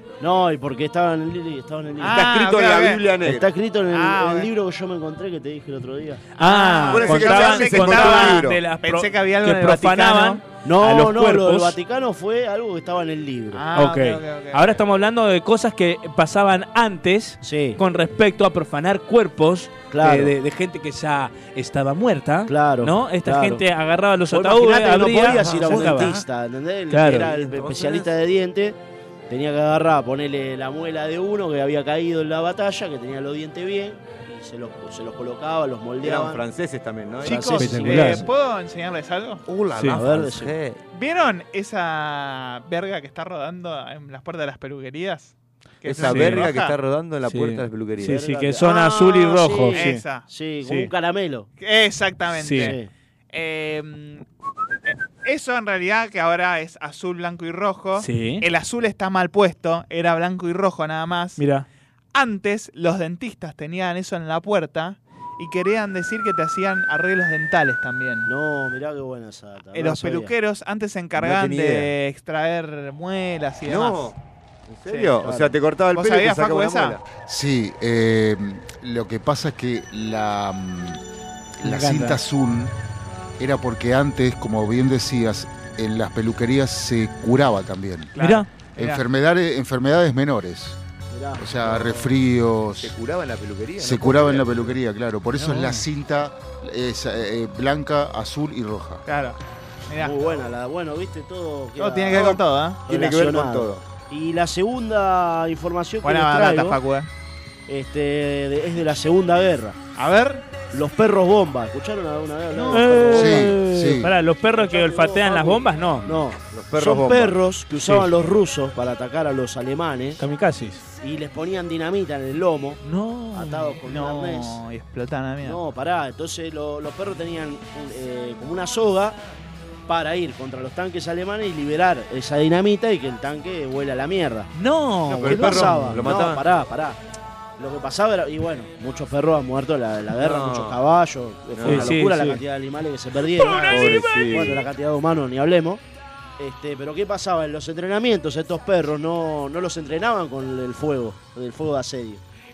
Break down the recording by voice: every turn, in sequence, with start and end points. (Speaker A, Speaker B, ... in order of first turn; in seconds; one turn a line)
Speaker A: 0.2-2.3
Speaker B: 2.0-3.0
Speaker C: 2.0-3.5
Speaker A: 3.2-6.2
Speaker B: 3.9-4.5
Speaker D: 6.4-11.8
Speaker B: 6.4-10.4
Speaker C: 6.9-8.6
Speaker A: 10.6-13.6
Speaker B: 13.5-14.8
Speaker D: 13.8-26.2
Speaker A: 17.4-17.8
Speaker A: 19.9-20.3
Speaker A: 22.5-23.6
Speaker A: 24.3-28.8
Speaker C: 25.2-26.2
Speaker D: 26.9-27.3
Speaker C: 27.2-28.1
Speaker A: 29.3-36.4
Speaker C: 36.0-37.6
Speaker A: 37.2-38.3
Speaker B: 37.2-39.4
Speaker D: 37.6-38.2
Speaker C: 39.5-40.8
Speaker D: 39.8-40.0
Speaker A: 39.9-40.5
Speaker B: 40.9-46.7
Speaker C: 45.9-48.3
Speaker D: 46.1-46.5
Speaker D: 47.3-50.0
Speaker A: 48.0-51.5
Speaker B: 49.7-50.2
Speaker D: 50.6-50.9
Speaker B: 51.6-52.8
Speaker D: 52.4-52.7
Speaker A: 52.5-52.9
Speaker B: 53.3-54.2
Speaker B: 54.9-61.4
Speaker D: 58.0-58.4
Speaker D: 61.4-61.6
Speaker B: 62.1-68.3
Speaker A: 68.2-70.3
Speaker B: 69.7-74.1
Speaker C: 71.2-71.9
Speaker C: 73.7-74.2
Speaker C: 74.7-77.0
Speaker B: 74.9-75.2
Speaker A: 75.2-75.5
Speaker B: 75.9-77.0
Speaker E: 77.2-81.0
Speaker E: 81.6-82.7
Speaker D: 81.6-82.2
Speaker E: 83.4-88.1
Speaker B: 88.2-89.0
Speaker D: 88.2-88.5
Speaker E: 88.8-90.8
Speaker A: 91.1-92.1
Speaker E: 91.4-92.9
Speaker C: 92.8-94.8
Speaker E: 93.8-99.0
Speaker B: 99.1-100.2
Speaker A: 100.0-106.8
Speaker B: 101.8-102.8
Speaker C: 102.1-103.8
Speaker B: 106.0-107.1
Speaker A: 107.7-109.8
Speaker B: 110.0-110.4
Speaker A: 110.7-113.6
Speaker B: 112.5-113.0
Speaker D: 112.7-116.1
Speaker E: 113.1-114.1
Speaker A: 114.6-120.2
Speaker C: 116.5-117.3
Speaker D: 120.2-120.8
Speaker A: 121.0-122.8
Speaker D: 122.8-123.7
Speaker A: 123.3-124.6
Speaker B: 123.9-125.6
Speaker A: 125.4-129.2
Speaker A: 129.9-134.5
Speaker D: 134.6-136.1
Speaker C: 135.1-136.4
Speaker A: 135.2-137.0
Speaker A: 137.6-145.8
Speaker C: 140.2-140.8
Speaker C: 141.6-141.9
Speaker D: 141.6-142.4
Speaker D: 143.4-144.3
Speaker C: 143.7-144.6
Speaker A: 146.4-152.2